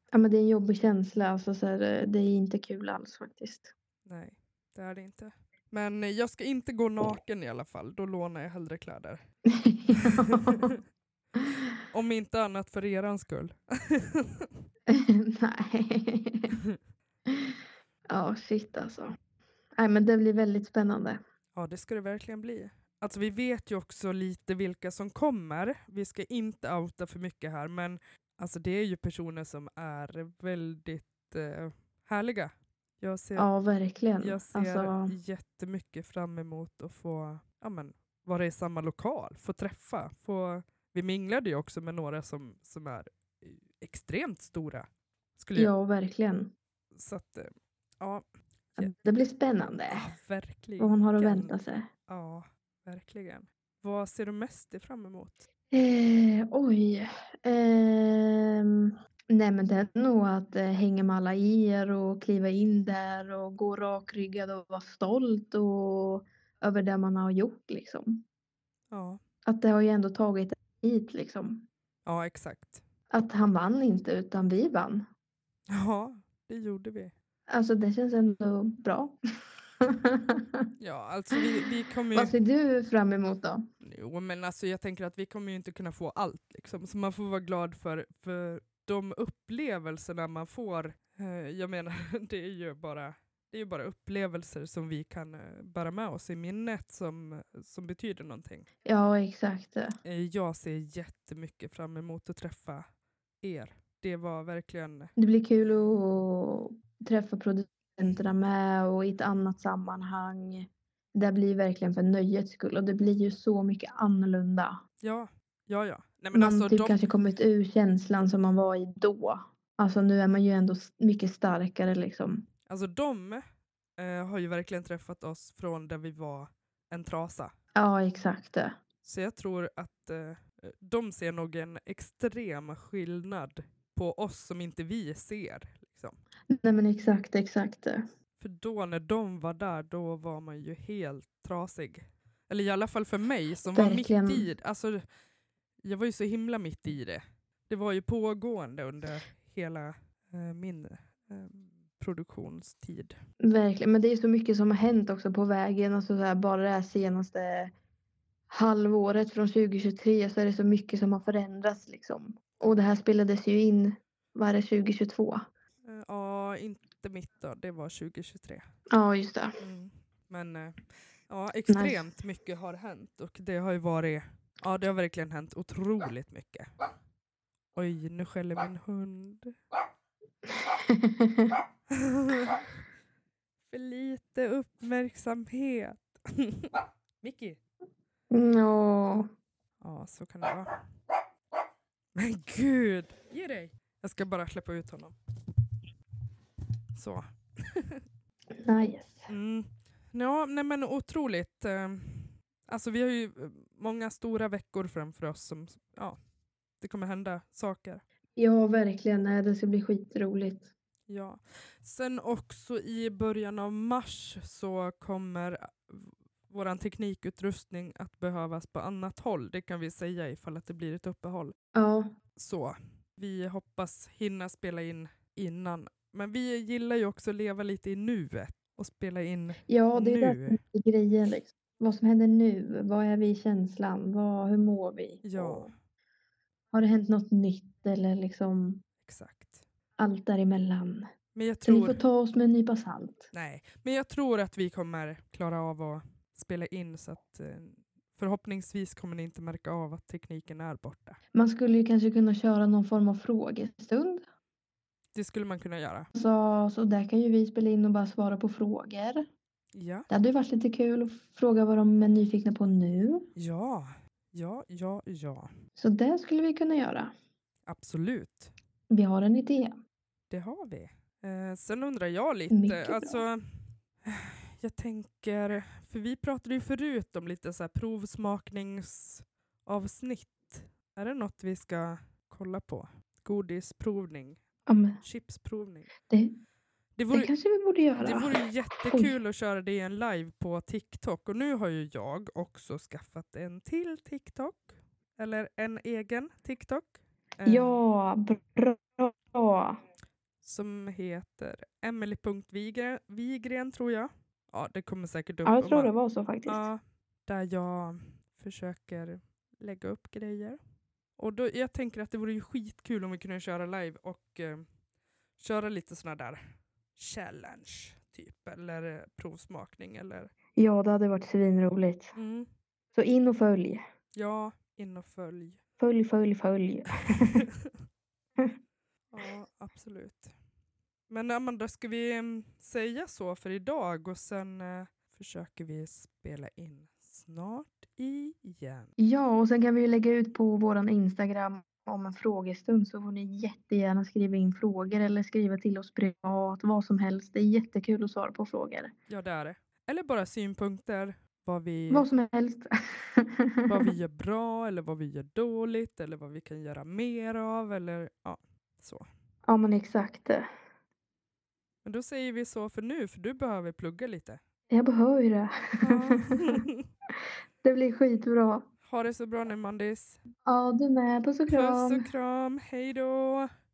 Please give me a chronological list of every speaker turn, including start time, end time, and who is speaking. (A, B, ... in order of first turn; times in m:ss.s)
0:00.1-0:03.7 A
0:04.0-0:09.2 B
0:09.5-0:10.7 A
0:10.0-0:10.6 B
0:11.9-0:14.5 B
0:14.9-0:16.6 A
0:18.1-0:19.2 A
0:19.8-0:21.2 A
0:21.6-0:33.5 B
0:33.4-0:35.1 A
0:34.2-0:44.9 B
0:45.4-0:45.7 B
0:45.6-0:46.5 A
0:46.9-0:47.5 B
0:48.0-0:48.9 B
0:48.8-0:50.1 A
0:49.9-0:51.6 B
0:50.8-0:51.9 A
0:52.1-0:55.5 B
0:55.7-1:08.2 A
1:08.9-1:09.2 B
1:09.5-1:11.7 A
1:12.0-1:12.8 B
1:13.1-1:15.0 A
1:15.7-1:17.1 B
1:17.5-1:19.2 A
1:19.8-1:20.7 A
1:20.8-1:22.4 B
1:22.1-1:23.6 A
1:23.8-1:38.7 B
1:38.8-1:39.9 A
1:40.0-1:42.8 B
1:43.4-1:45.1 B
1:45.2-1:54.8 A
1:55.0-1:57.0 B
1:56.3-2:02.5 A
2:02.7-2:03.4 B
2:04.0-2:07.5 B
2:07.8-2:08.8 A
2:09.0-2:16.2 B
2:16.5-2:18.0 A
2:18.4-2:25.0 B
2:23.7-2:24.5 A
2:25.8-2:33.2 B
2:33.4-2:37.7 A
2:38.5-2:45.5 A
2:45.8-2:48.6 B
2:48.9-2:49.6 A
2:49.6-2:56.7 B
2:51.7-2:52.0 A
2:57.8-2:59.5 B
3:00.7-3:01.6 A
3:01.9-3:02.6 B
3:03.7-3:07.6 B
3:08.3-3:09.3 A
3:09.8-3:10.7 B
3:12.2-3:15.2 B
3:17.0-3:18.0 B
3:18.6-3:19.3 A
3:19.3-3:26.2 B
3:26.8-3:28.0 B
3:28.4-3:30.7 A
3:31.1-3:41.6 B
3:41.8-3:42.1 A
3:42.4-3:50.6 B
3:49.7-3:55.7 A
3:55.2-3:55.7 B
3:56.7-3:58.8 A
3:59.0-3:59.6 B
4:00.0-4:01.1 A
4:01.4-4:02.0 B
4:01.6-4:03.3 A
4:03.3-4:11.2 B
4:11.4-4:14.2 A
4:15.1-4:16.1 B
4:16.2-4:19.2 A
4:19.7-4:20.1 B
4:20.1-4:23.3 A
4:23.4-4:25.5 B
4:25.8-4:27.1 A
4:27.7-4:28.5 B
4:28.9-4:29.8 A
4:30.3-4:33.4 B
4:32.5-4:33.2 A
4:34.0-4:44.4 B
4:44.7-4:45.0 A
4:45.0-4:45.9 B
4:46.1-4:46.3 A
4:47.0-4:47.3 B
4:47.1-4:49.2 A
4:48.0-4:57.8 B
4:57.5-4:59.8 A
5:00.4-5:05.9 B
5:05.4-5:06.7 A
5:06.5-5:10.6 B
5:11.2-5:14.7 B
5:15.4-5:20.3 B
5:20.6-5:22.2 A
5:22.2-5:22.5 B
5:23.0-5:23.8 A
5:24.1-5:25.6 B
5:25.8-5:27.4 A
5:27.1-5:27.7 B
5:29.1-5:30.3 B
5:31.1-5:38.9 B
5:39.0-5:48.9 A
5:49.1-5:52.1 B
5:51.9-5:53.9 A
5:53.7-5:59.1 B
5:59.5-6:00.4 A
6:01.8-6:04.4 B
6:04.7-6:06.6 A
6:05.8-6:06.8 B
6:07.6-6:08.7 A
6:08.8-6:10.2 B
6:10.4-6:12.1 A
6:11.5-6:13.5 B